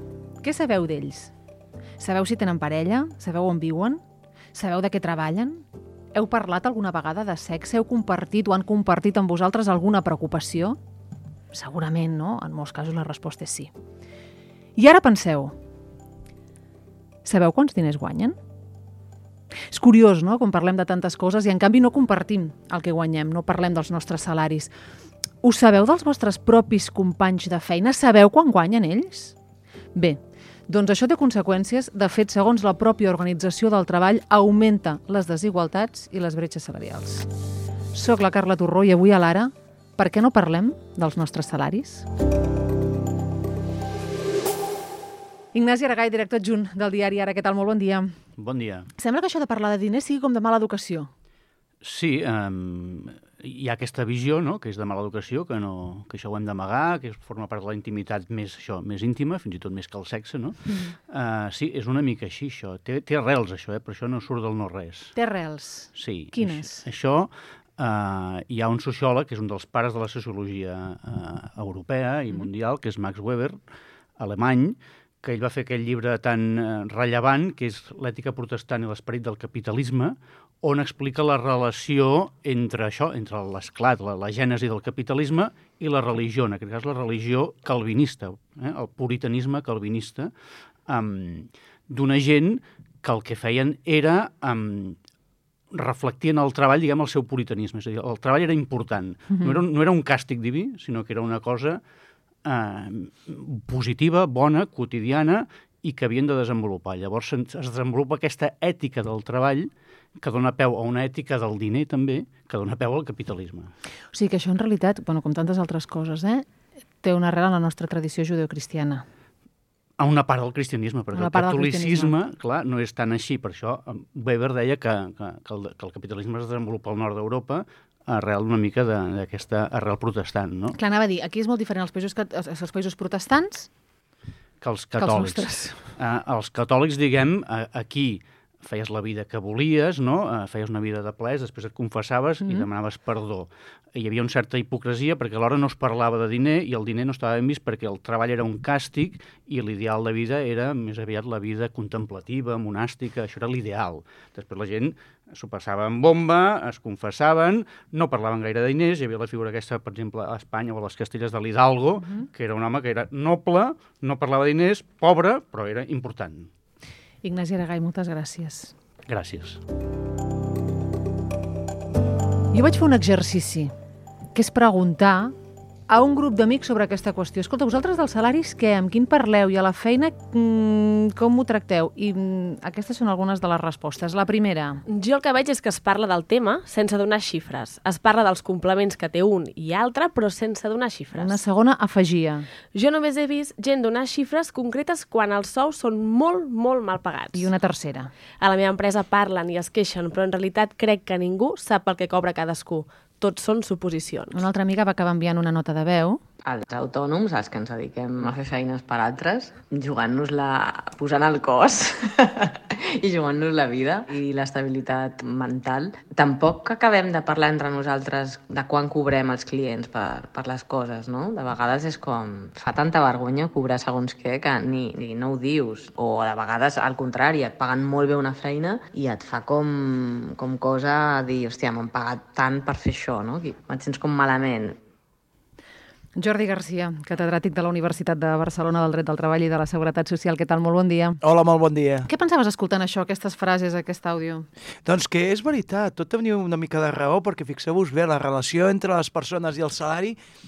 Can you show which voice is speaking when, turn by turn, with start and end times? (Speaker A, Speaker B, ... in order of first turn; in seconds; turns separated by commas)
Speaker A: 0.4-1.3, Speaker A: 2.0-4.0, Speaker A: 4.5-10.8, Speaker A: 11.5-13.7, Speaker A: 14.8-15.6, Speaker A: 17.2-18.4, Speaker A: 19.7-24.7, Speaker A: 25.4-29.4, Speaker A: 29.9-37.3, Speaker A: 37.9-42.1, Speaker A: 45.5-48.1, Speaker B: 48.4-48.9, Speaker A: 49.0-51.1, Speaker B: 51.8-65.2, Speaker A: 65.2-66.8, Speaker B: 65.9-73.6, Speaker B: 74.2-90.3, Speaker B: 90.9-95.0, Speaker B: 95.7-101.8, Speaker B: 102.5-113.7, Speaker A: 114.1-116.5, Speaker A: 117.0-119.0, Speaker B: 120.0-130.8, Speaker A: 121.1-122.1, Speaker A: 130.8-133.7, Speaker B: 134.6-166.5, Speaker A: 135.0-135.8, Speaker A: 167.2-168.7, Speaker B: 169.1-169.6, Speaker A: 172.5-173.7, Speaker A: 174.3-175.3, Speaker A: 175.9-184.8, Speaker C: 184.9-191.4, Speaker A: 191.1-192.5, Speaker C: 192.7-197.5, Speaker A: 197.3-198.1, Speaker C: 198.4-204.4, Speaker A: 204.3-206.2, Speaker D: 206.4-234.8, Speaker A: 236.2-241.2, Speaker E: 241.2-242.1, Speaker A: 242.1-244.5, Speaker E: 244.8-250.2